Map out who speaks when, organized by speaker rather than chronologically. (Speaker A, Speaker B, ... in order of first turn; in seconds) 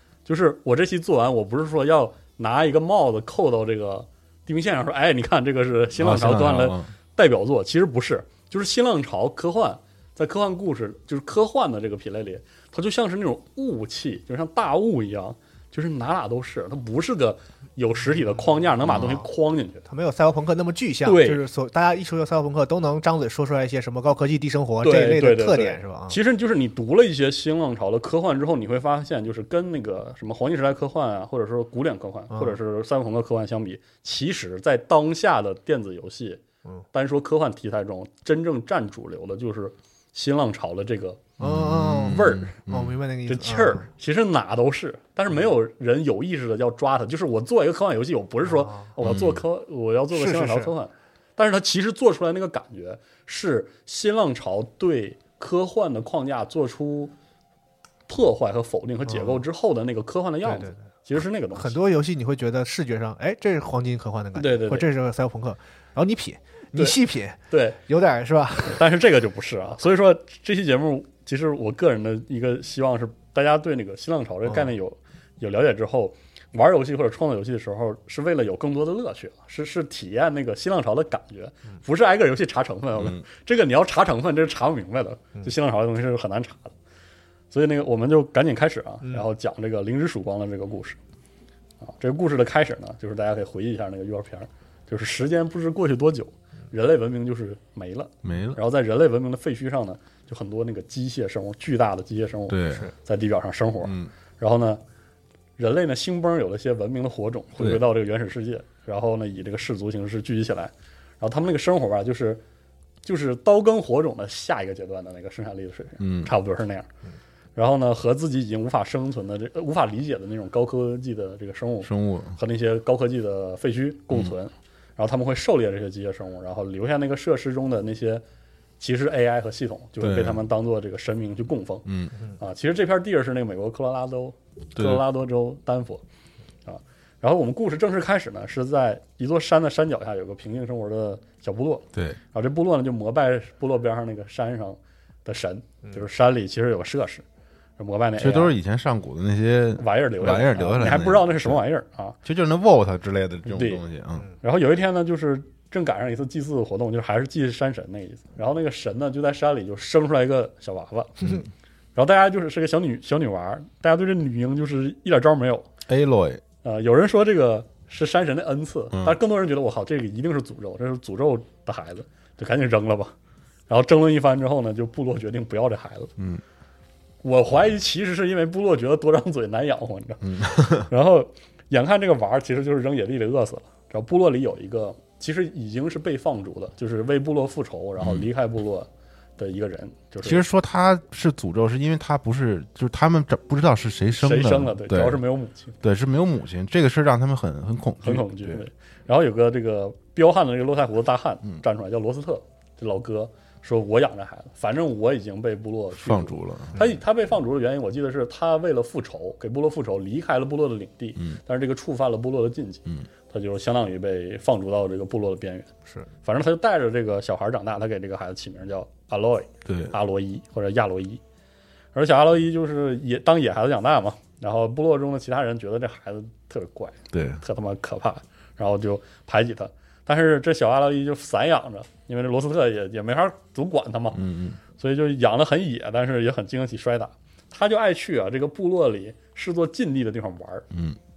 Speaker A: 0.2-19.8, 21.0-21.4, 24.8-36.4, 36.9-41.3, 42.0-42.6, 43.3-57.1, 58.1-61.8, 64.3-64.9, 67.5-67.8, 68.6-86.7, 87.5-91.0, 91.8-104.8, 105.6-112.4, 113.0-116.9, 117.5-128.2, 128.8-136.0, 136.7-147.2, 147.8-148.5, 149.8-152.2, 153.5-153.8, 154.4-161.4, 161.9-165.7, 166.6-173.1, 173.7-176.1, 177.2-190.4, 194.2-195.8, 198.0-215.7, 216.2-221.2, 221.9-234.2, 234.7-240.7
Speaker B: 6.0-6.9, 18.9-19.2, 41.4-43.0, 49.0-49.4, 83.0-83.2, 98.2-98.6, 102.5-102.9, 103.8-104.1, 116.0-116.3, 121.8-122.4, 130.0-130.4, 131.8-132.1, 134.8-135.0, 148.2-151.6, 152.2-154.3, 165.9-166.4, 176.2-176.4, 180.2-180.9, 188.0-188.2, 190.2-195.2, 195.8-198.6, 205.9-206.9, 219.6-219.9, 227.1-227.4, 234.1-234.6, 240.7-241.0
Speaker C: 19.9-26.2, 41.4-43.8, 50.1-50.7, 59.1-59.4, 60.5-60.8, 61.5-68.8